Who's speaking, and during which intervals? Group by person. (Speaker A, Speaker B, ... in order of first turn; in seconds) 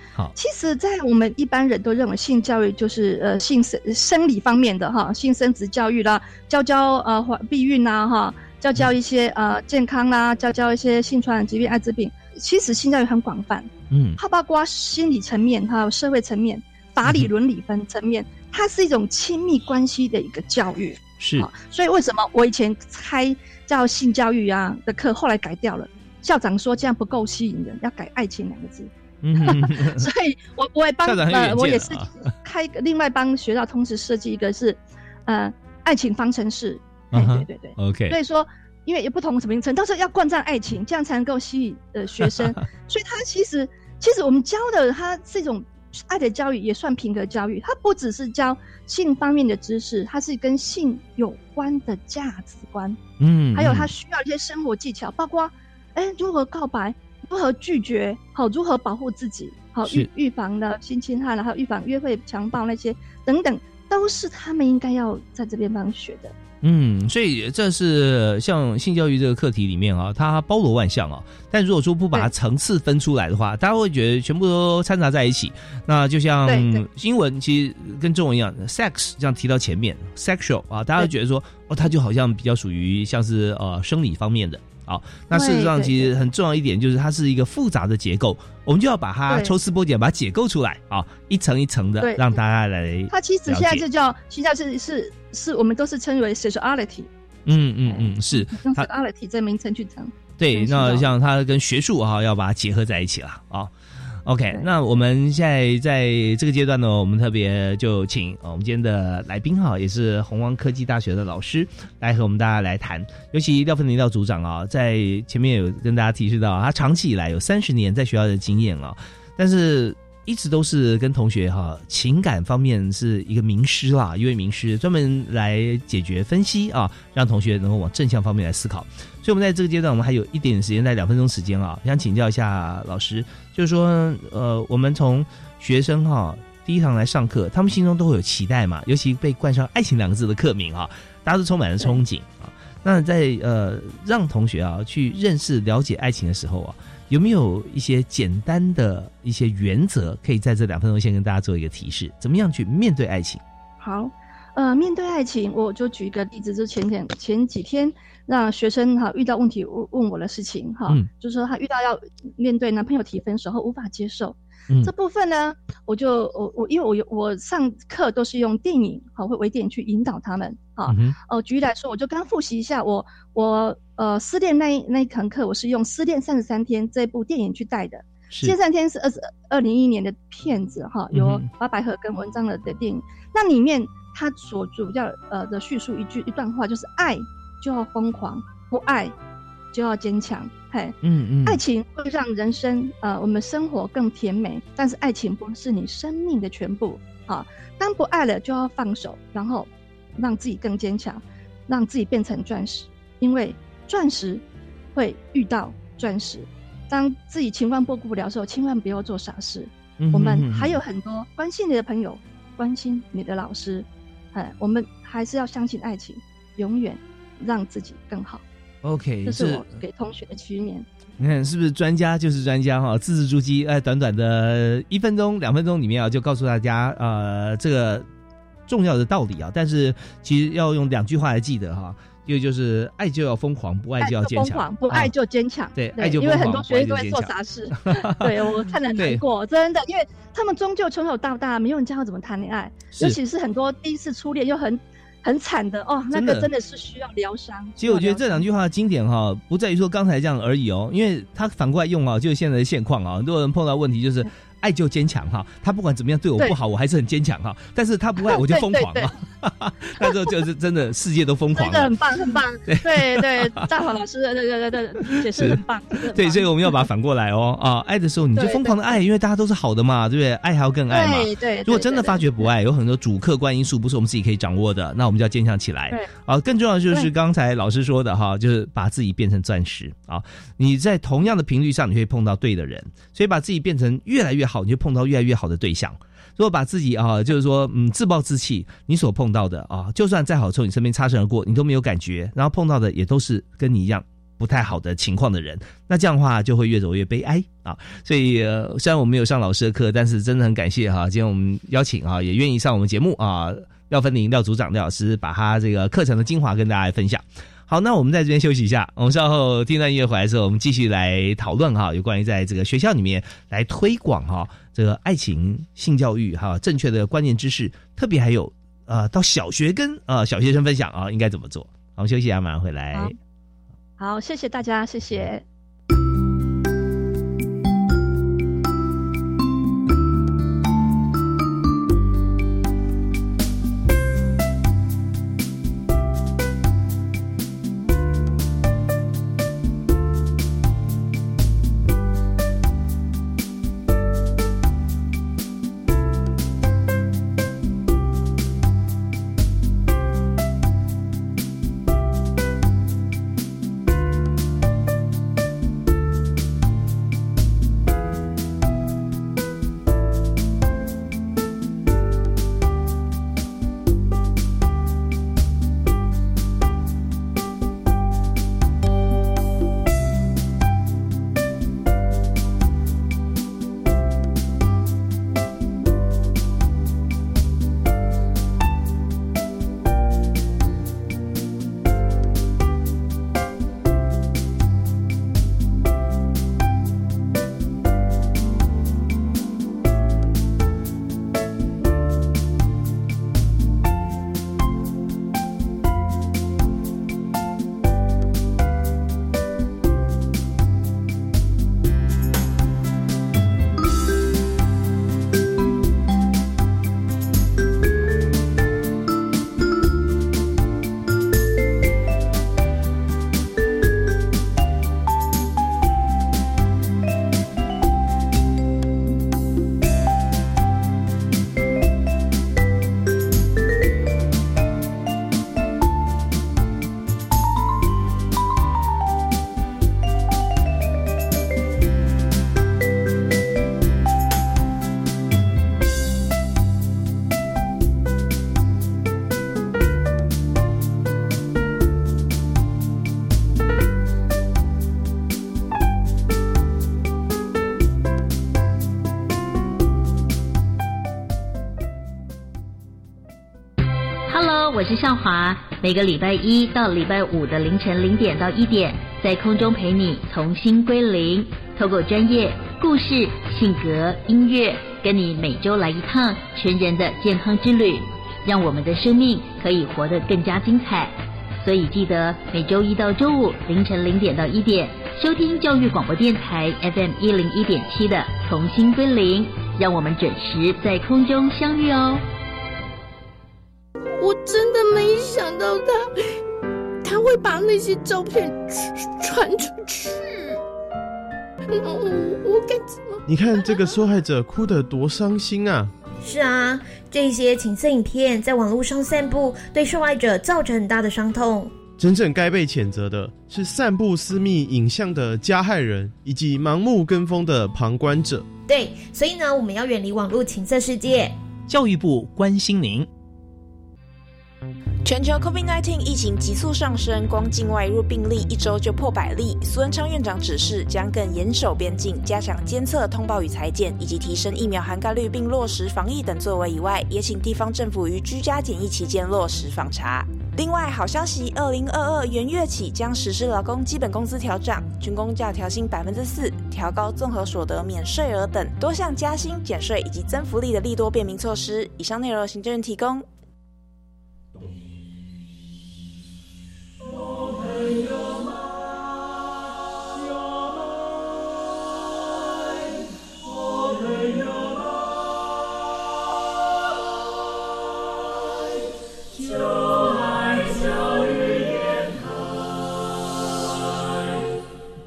Speaker A: 0.3-53.0, 53.5-66.3, 76.5-76.8, 85.3-86.1, 89.3-89.5, 92.0-92.4, 93.1-97.1, 97.8-101.1, 153.8-189.1, 189.7-204.4, 204.9-218.4, 219.2-220.8, 234.0-248.4, 258.2-259.1, 260.0-260.3, 261.5-266.8, 268.3-268.9, 270.9-272.2, 324.0-325.4
Speaker B: 13.9-14.2, 21.2-21.5, 29.2-30.1, 31.0-32.2, 37.1-38.1, 53.2-53.9, 59.8-60.1, 66.6-93.8, 97.5-98.9, 100.4-103.7, 104.2-153.4, 170.9-171.2, 178.3-178.5, 181.1-181.5, 191.0-191.6, 210.0-210.8, 218.8-219.8, 221.2-228.1, 228.7-235.1, 235.7-239.2, 246.1-246.5, 247.8-262.0, 262.7-263.6, 265.3-265.6, 266.1-323.1, 511.7-513.1
Speaker C: 454.3-482.2
Speaker D: 484.2-486.1, 487.0-490.6, 491.7-493.9
Speaker E: 493.3-495.9, 502.0-508.5
Speaker F: 496.2-501.7, 508.7-511.3
Speaker G: 515.0-543.2